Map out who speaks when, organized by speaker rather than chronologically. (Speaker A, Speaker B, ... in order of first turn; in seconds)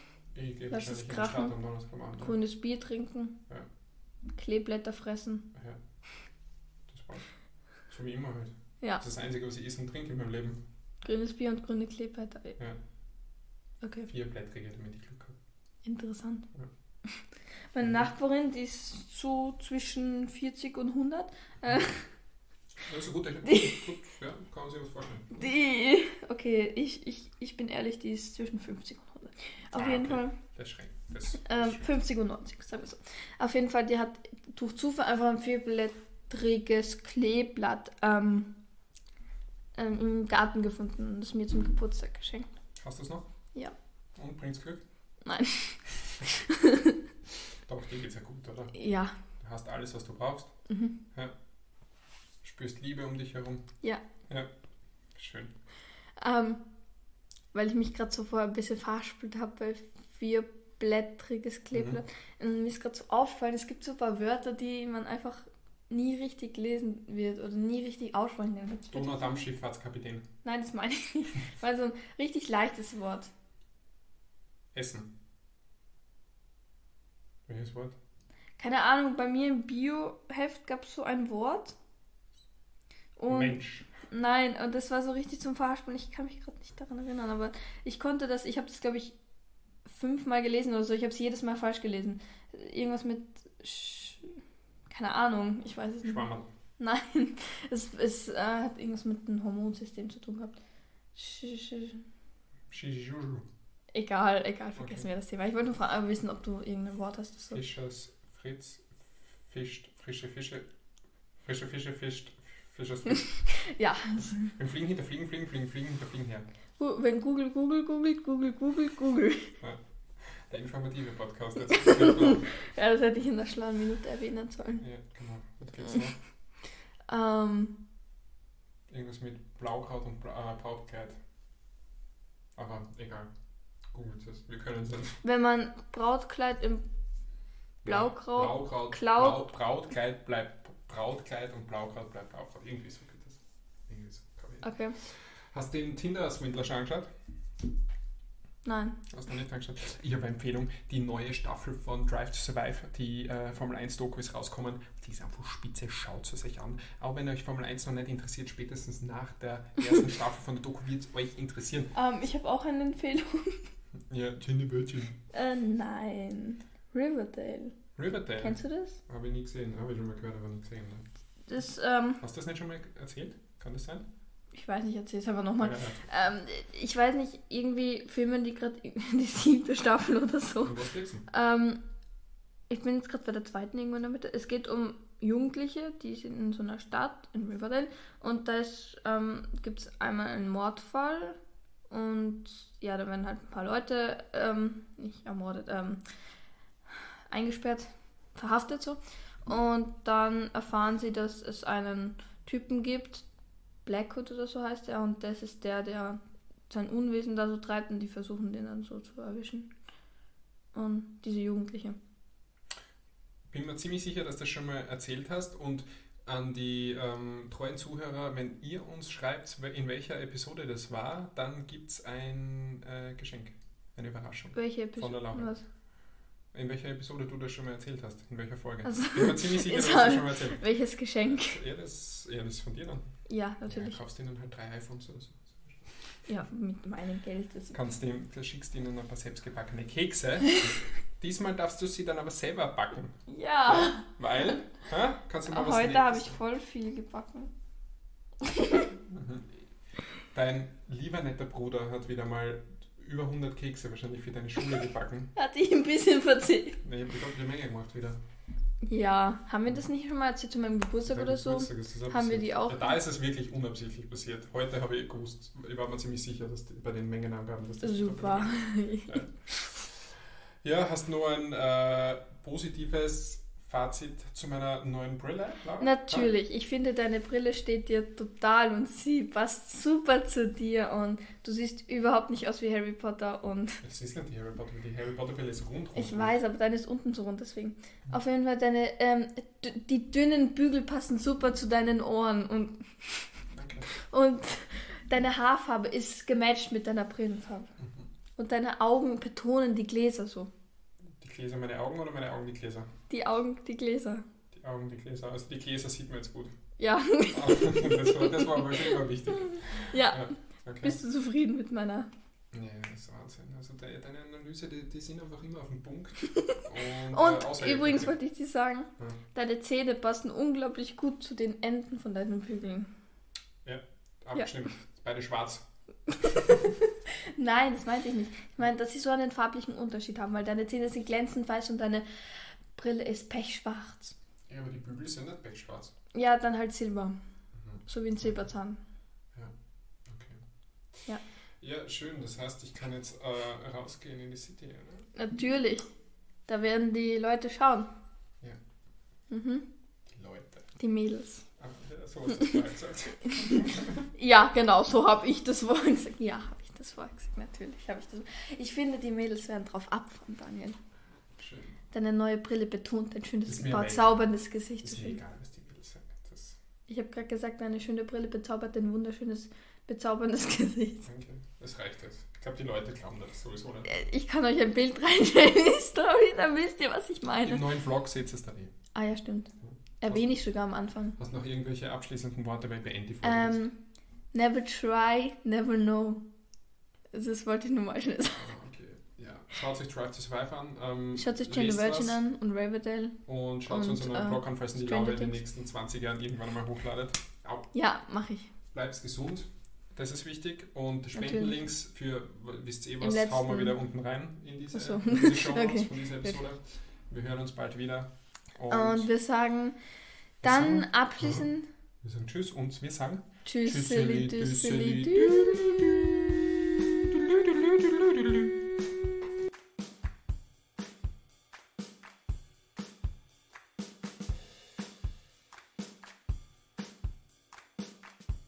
Speaker A: 0.3-2.4, 6.9-7.3, 7.9-10.6, 14.1-15.3, 17.8-18.1, 22.8-25.4, 29.8-31.9, 42.8-43.3, 44.2-44.8, 47.7-48.8, 49.4-50.5, 52.4-53.6, 55.2-55.5, 61.7-62.0, 68.9-70.3, 74.7-75.1, 77.5-78.0, 83.3-83.9, 96.0-96.5, 102.7-103.5, 104.8-105.1, 107.5-110.7, 111.4-113.3, 114.6-116.5, 120.3-122.5, 124.8-126.2, 128.9-131.2, 132.6-133.3, 133.9-135.2, 137.8-147.1, 149.1-161.9, 164.1-165.2, 168.0-171.1, 172.2-174.1, 175.6-176.0, 180.6-181.3, 213.5-225.5, 226.5-230.6, 231.3-233.1, 233.7-236.0, 237.7-243.1, 243.7-246.4, 249.1-249.6, 250.3-255.3, 256.8-258.2, 261.1-269.3, 270.6-276.3, 283.8-286.4, 293.5-293.9, 297.8-298.1, 301.2-302.9, 304.5-306.5, 307.3-311.0, 312.5-318.1, 323.6-325.6, 334.5-335.9, 337.6-338.4, 340.1-340.4, 341.6-345.1, 350.1-350.7, 351.6-354.1, 361.4-361.8, 363.5-364.2, 364.8-366.6, 371.0-373.9, 377.4-378.7, 379.6-380.3, 381.2-383.6, 388.4-392.2, 393.3-397.7, 398.7-409.1, 410.4-411.5, 412.0-418.6
Speaker B: 0.7-1.6, 2.2-3.4, 4.3-5.5, 11.0-12.6, 13.8-14.1, 15.8-16.5, 17.7-22.0, 23.5-23.8, 25.3-30.4, 31.4-38.5, 39.8-42.5, 45.2-47.0, 48.7-49.2, 50.7-51.0, 56.2-56.6, 57.5-69.4, 70.4-73.3, 78.6-81.8, 83.2-89.2, 89.9-96.3, 96.8-100.6, 101.2-102.0, 103.9-107.6, 113.2-114.5, 116.8-119.5, 121.8-124.8, 127.1-127.8, 135.2-136.8, 137.8-139.5, 144.6-145.0, 148.7-149.0, 161.9-163.7, 165.3-167.8, 168.4-169.0, 171.5-172.2, 174.5-180.8, 181.3-181.8, 182.7-191.4, 191.9-196.0, 197.3-203.3, 203.8-206.2, 206.7-209.7, 210.7-212.0, 224.6-225.6, 228.8-231.6, 233.3-234.0, 236.3-237.8, 243.3-244.1, 245.5-247.5, 248.5-248.9, 255.4-256.8, 258.9-263.0, 267.8-269.5, 275.8-283.8, 285.9-293.3, 294.0-297.7, 298.4-300.5, 303.1-304.2, 306.8-312.1, 317.1-322.9, 326.3-326.8, 327.3-332.1, 332.7-334.1, 336.1-337.2, 337.9-338.8, 345.2-345.9, 346.5-347.9, 349.3-349.7, 350.8-351.4, 354.2-360.8, 361.9-365.2, 366.9-371.1, 373.9-377.7, 378.9-379.5, 380.0-381.2, 383.2-383.8, 384.3-386.2, 387.1-388.5, 391.1-395.4, 397.7-398.5, 401.1-401.6, 403.0-403.8, 404.7-406.4, 408.7-409.8, 410.4-411.7, 413.4-415.8